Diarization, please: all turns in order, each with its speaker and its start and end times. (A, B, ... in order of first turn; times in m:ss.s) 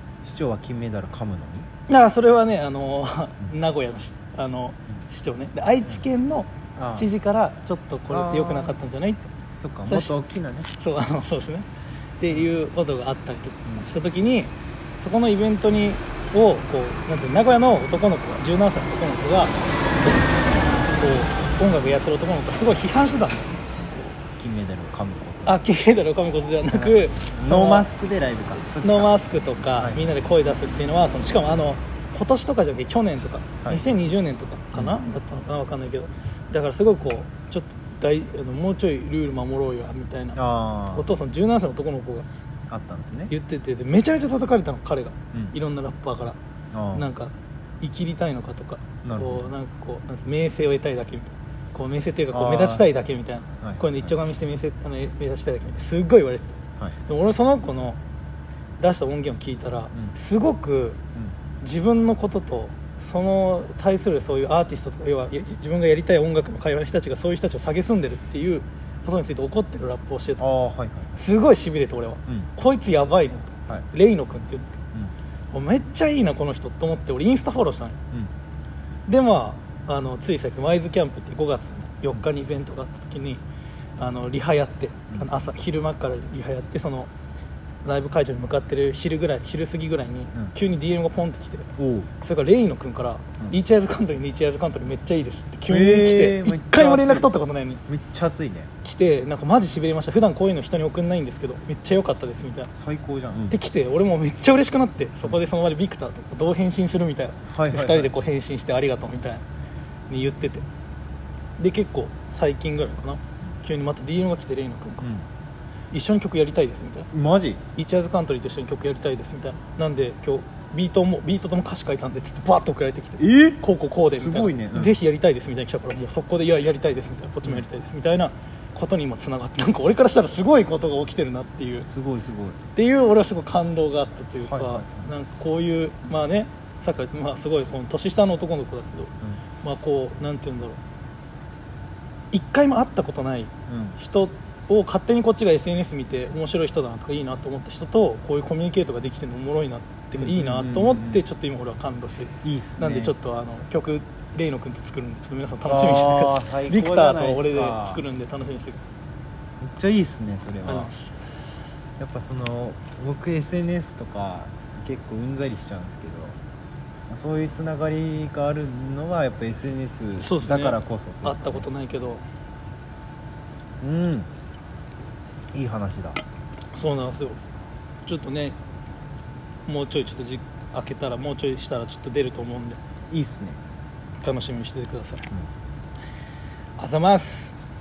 0:00.2-0:01.7 A
0:01.9-0:09.3 B
0:06.8-0:07.1 A
0:08.1-0:08.8 A
0:09.6-0:10.7 A
0:09.9-0:10.1 B
0:10.8-0:11.6 B
0:12.2-0:24.2 B
0:20.0-0:20.5 A
0:24.4-0:25.6 A
0:25.4-0:27.9 B
0:26.7-0:29.2 A
0:28.8-0:40.4 B
0:29.7-0:30.0 A
0:33.6-0:33.9 A
0:34.7-0:35.0 A
0:40.3-0:41.2 A
0:40.9-0:42.3 B
0:42.7-0:43.3 A
0:43.3-0:46.4 B
0:46.7-0:47.1 A
0:46.9-0:58.0 B
0:49.0-0:49.5 A
0:52.3-0:52.9 A
0:53.6-0:54.2 A
0:58.8-1:01.0 B
1:01.6-1:10.4 B
1:10.4-1:11.2 A
1:11.2-1:14.8 B
1:15.5-1:18.0 B
1:19.1-1:23.4 B
1:24.0-1:27.1 B
1:27.8-1:31.7 B
1:31.8-1:32.1 A
1:32.2-1:37.8 B
1:35.7-1:37.3 A
1:37.9-1:38.7 A
1:38.8-1:42.7 B
1:42.7-1:43.6 A
1:43.5-1:49.4 B
1:47.5-1:48.1 A
1:50.1-1:50.6 B
1:51.6-1:55.1 B
1:55.0-1:55.3 A
1:55.9-1:57.1 B
1:57.1-1:57.6 A
1:57.8-2:11.9 B
2:03.2-2:05.0 A
2:11.9-2:12.6 A
2:12.7-2:20.8 B
2:14.4-2:15.1 A
2:22.3-2:38.8 B
2:23.7-2:24.0 A
2:30.2-2:31.2 A
2:32.4-2:33.1 A
2:35.6-2:38.0 A
2:39.6-2:40.9 A
2:40.6-2:41.2 B
2:42.0-2:46.4 A
2:47.1-2:51.7 A
2:50.2-2:52.2 B
2:53.8-2:54.3 A
2:55.5-2:56.2 A
2:56.7-2:57.4 B
2:58.0-2:58.6 B
2:59.7-3:02.8 B
3:03.1-3:03.6 A
3:04.2-3:05.3 B
3:06.8-3:07.5 B